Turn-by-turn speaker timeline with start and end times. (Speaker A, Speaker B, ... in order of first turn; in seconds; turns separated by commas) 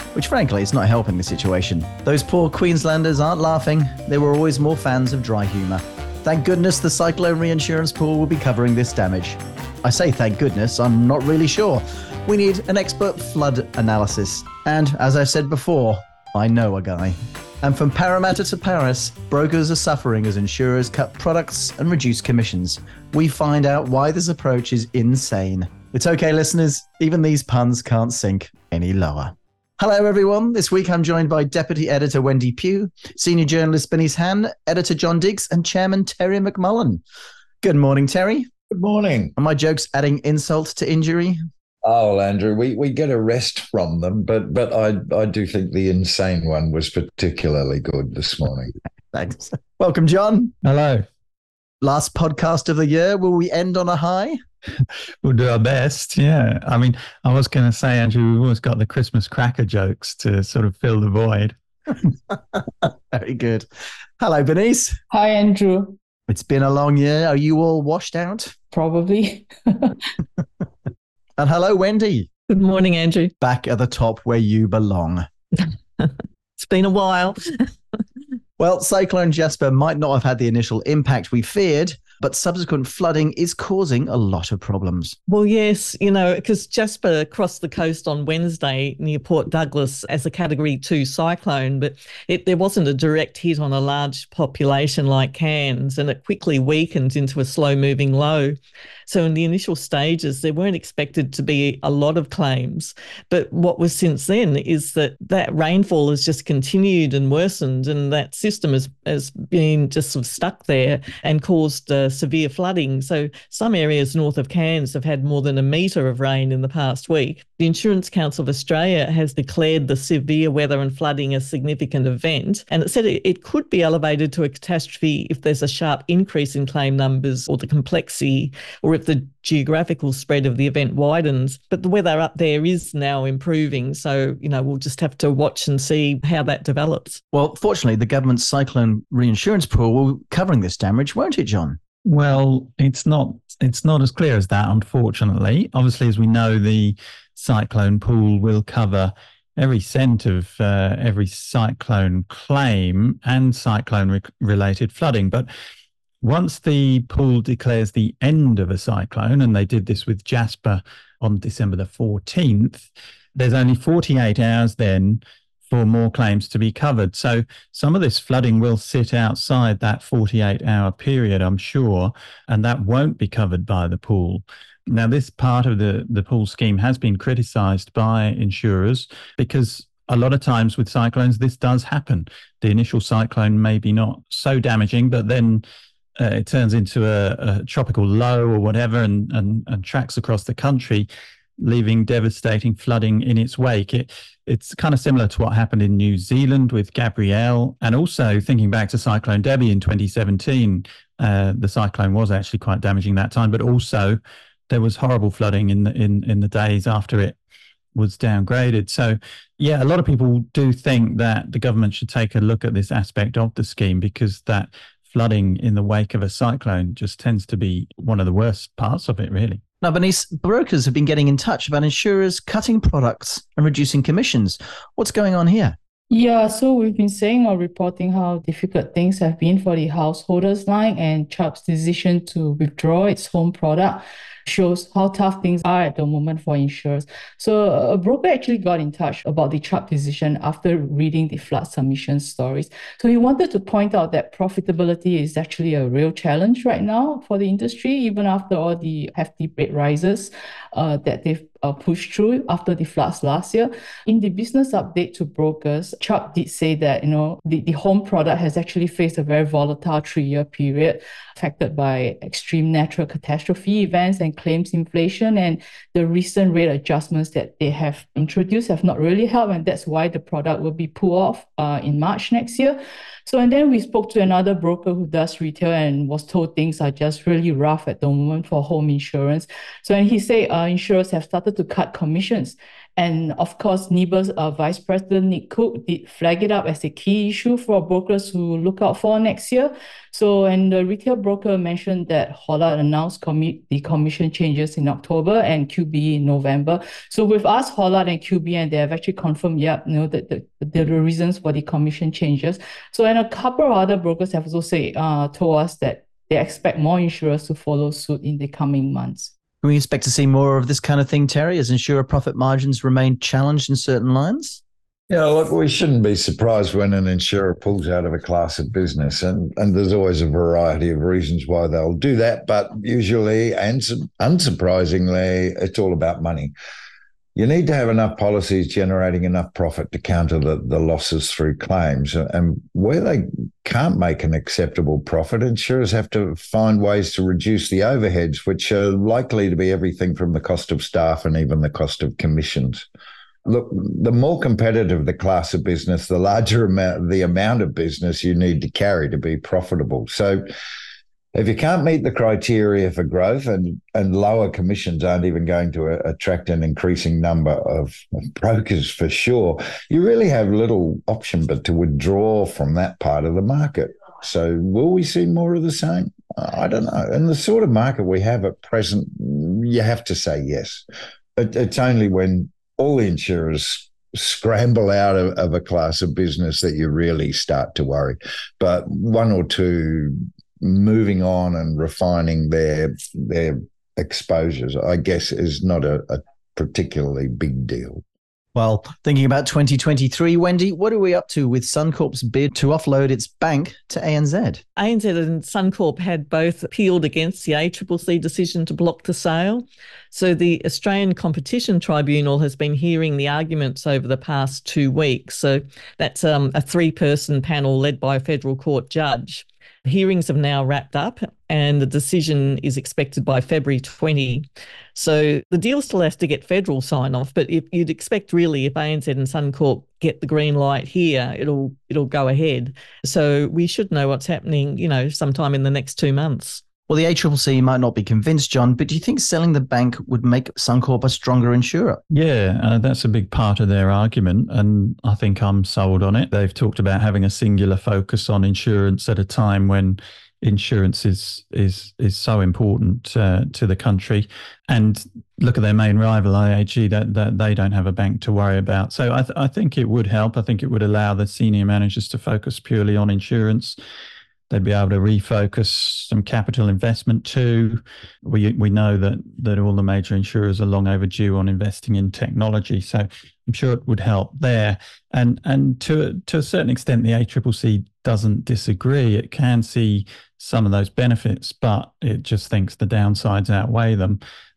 Speaker A: 0.1-37.0, Speaker A: 37.6-38.5, Speaker B: 38.7-39.4, Speaker A: 39.4-41.4, Speaker B: 41.8-48.7, Speaker A: 49.1-50.5, Speaker C: 50.6-51.0, Speaker A: 51.8-54.4, Speaker C: 54.8-61.6, Speaker A: 62.1-63.7, Speaker A: 64.2-65.0, Speaker D: 65.1-66.0, Speaker A: 66.3-68.5, Speaker D: 68.7-70.0, Speaker A: 71.4-72.3, Speaker E: 72.5-73.3, Speaker A: 73.4-75.3, Speaker E: 75.6-77.4, Speaker A: 78.6-85.2, Speaker E: 85.3-98.6, Speaker E: 99.1-137.2, Speaker A: 137.3-141.8, Speaker C: 142.1-155.5, Speaker C: 156.2-185.6, Speaker C: 186.2-191.1, Speaker C: 191.6-207.4, Speaker C: 207.9-219.6, Speaker A: 219.8-225.8, Speaker D: 226.1-309.3, Speaker A: 309.6-314.6, Speaker B: 315.1-326.5, Speaker B: 327.4-342.9, Speaker B: 343.5-350.5, Speaker B: 351.4-370.9, Speaker B: 371.4-388.0, Speaker A: 388.6-394.6, Speaker E: 394.8-426.6, Speaker A: 426.9-432.0, Speaker C: 432.1-453.8, Speaker C: 454.5-474.2